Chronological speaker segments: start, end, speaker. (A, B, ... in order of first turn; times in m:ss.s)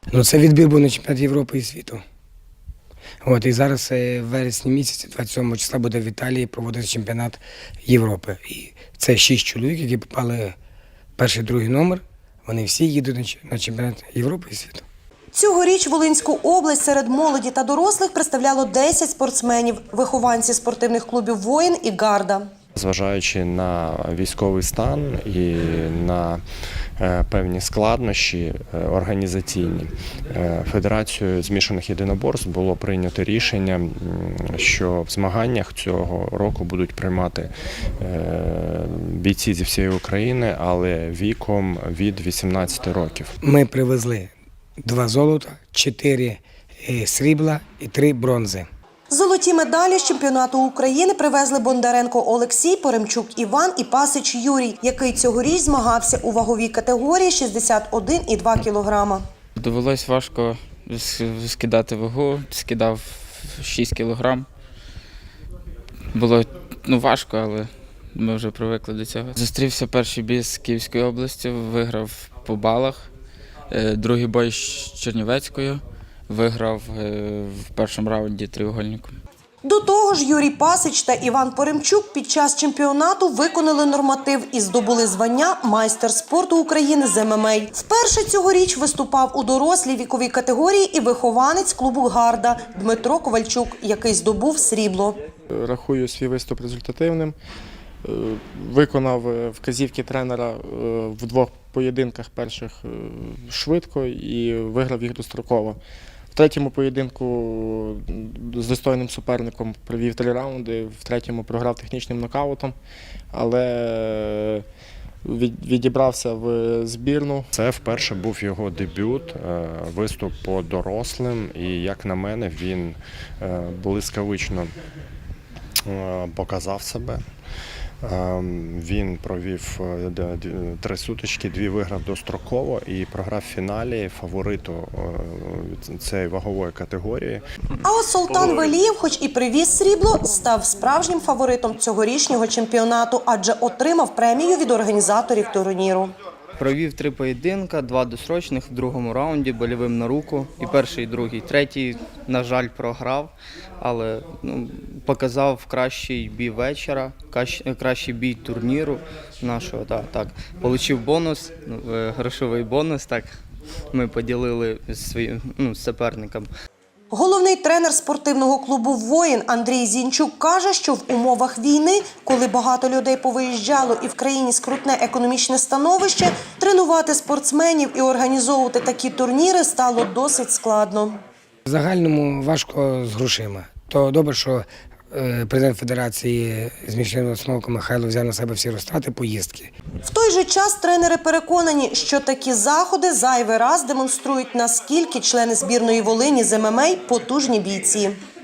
0:00.1-0:02.0 A
0:03.2-0:10.6 A
0:11.2-0:14.8 A
0:15.3-0:22.5 B
0:22.8-0:26.4 C
0:27.0-0:43.3 C
0:43.4-0:44.3 A
0:44.8-0:48.7 A
0:49.1-0:59.2 B
0:59.6-1:04.5 D
1:06.1-1:13.1 D
1:13.7-1:19.1 D
1:19.6-1:35.2 B
1:35.5-1:37.4 E
1:38.0-1:45.8 E
1:46.3-1:52.8 E
1:53.3-1:54.6 E
1:55.2-1:57.5 E
1:57.5-2:04.7 C
2:05.8-2:07.2 C
2:08.0-2:17.4 C
2:17.8-2:26.1 B
2:26.6-2:43.3 F
2:43.9-2:46.5 F
2:47.1-3:01.2 B
3:01.6-3:09.7 A
3:10.0-3:18.1 B